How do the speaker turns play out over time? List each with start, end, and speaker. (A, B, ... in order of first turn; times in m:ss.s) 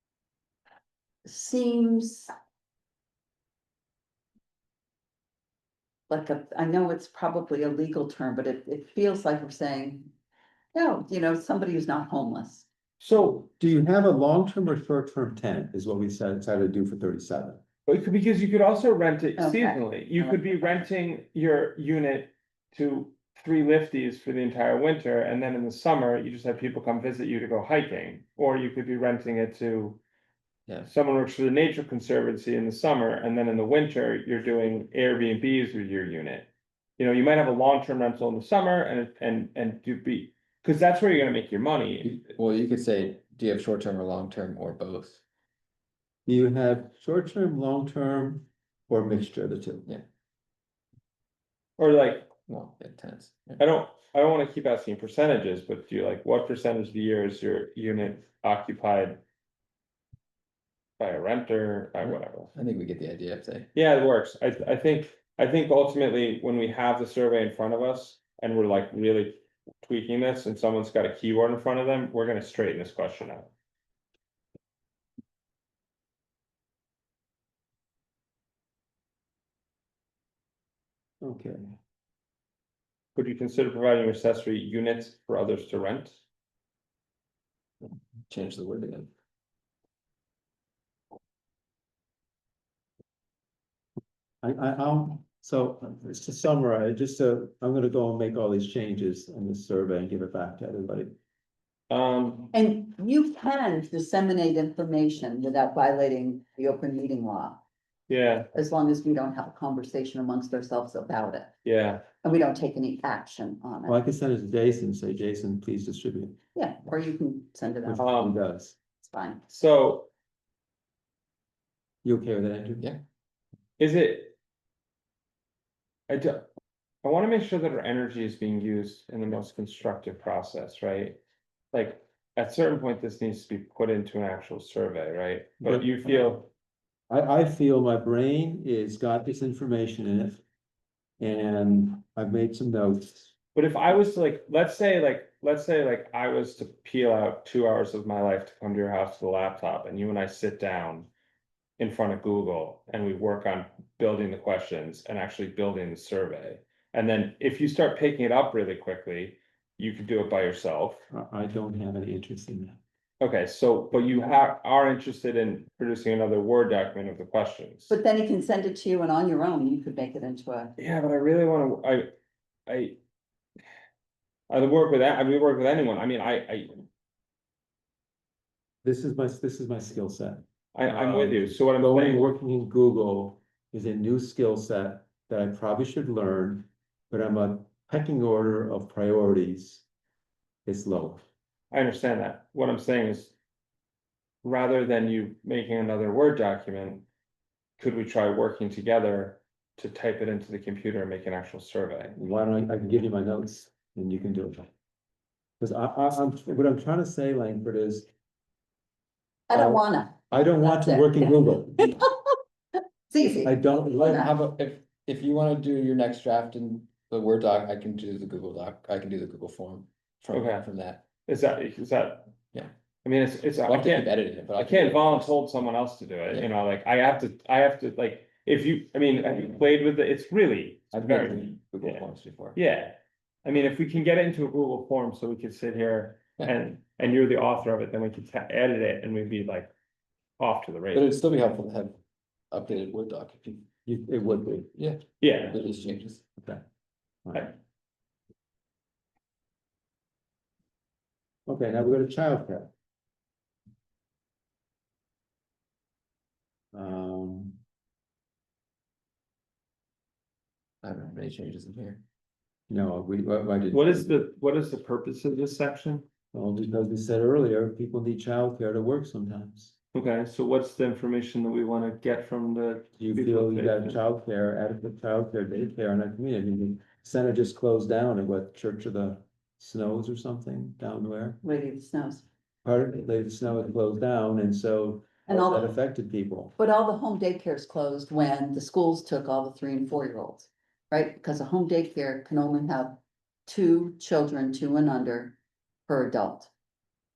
0:01.2-0:02.3 A
0:06.1-0:10.1 A
0:10.7-0:12.7 A
0:13.0-0:13.4 B
0:13.4-0:17.6 C
0:17.8-0:30.0 B
0:19.4-0:20.4 A
0:30.8-0:42.1 B
0:42.0-0:45.2 D
0:46.2-0:49.9 C
0:51.8-0:52.3 B
0:52.4-0:53.6 D
0:53.6-0:59.2 B
1:01.0-1:02.5 B
1:02.0-1:03.7 D
1:03.7-1:13.5 B
1:21.2-1:21.7 C
1:23.2-1:26.2 B
1:28.3-1:29.1 D
1:34.4-1:41.1 C
1:41.9-1:42.5 B
1:42.5-1:47.6 A
1:48.1-1:48.5 B
1:48.5-1:51.5 A
1:51.6-1:52.0 B
1:52.2-1:54.0 A
1:53.8-1:56.4 C
1:56.5-1:58.1 A
1:57.8-1:58.8 C
1:58.0-1:58.4 B
1:59.0-1:59.4 A
1:59.5-2:00.1 B
2:02.0-2:02.9 C
2:03.8-2:04.3 B
2:06.1-2:06.5 B
2:07.0-2:11.2 B
2:11.7-2:16.5 B
2:15.6-2:16.4 C
2:17.1-2:20.4 C
2:21.2-2:23.3 C
2:23.5-2:31.1 B
2:31.8-2:41.0 B
2:41.1-2:42.8 C
2:43.2-2:47.9 B
2:47.9-2:50.7 A
2:50.8-2:52.1 B
2:52.7-2:53.0 B
2:54.5-2:56.8 B
2:58.8-3:09.8 C
3:00.7-3:02.3 B
3:10.6-3:11.2 C
3:11.7-3:13.3 B
3:14.4-3:17.0 B
3:17.8-3:22.2 B
3:22.2-3:24.7 C
3:25.6-3:28.1 C
3:29.5-3:32.3 A
3:29.5-3:32.0 C
3:33.1-3:34.3 A
3:33.2-3:34.3 C
3:34.0-3:41.0 D
3:40.3-3:40.6 B
3:41.2-3:42.3 B
3:43.0-3:52.0 B
3:43.6-3:45.4 D
3:50.9-3:52.6 D
3:52.5-3:59.7 B
4:00.4-4:01.1 B
4:00.9-4:02.0 D
4:02.5-4:03.7 D
4:03.8-4:04.7 C
4:04.7-4:06.2 D
4:05.2-4:05.6 B
4:07.2-4:07.5 C
4:11.5-4:12.7 C
4:16.7-4:17.6 C
4:20.8-4:22.0 D
4:22.7-4:24.1 C
4:23.7-4:26.0 B
4:26.3-4:29.7 C
4:29.9-4:34.0 B
4:33.0-4:41.4 C
4:41.4-4:42.2 A
4:42.6-4:46.5 C
4:45.3-4:45.7 A
4:46.6-4:56.5 A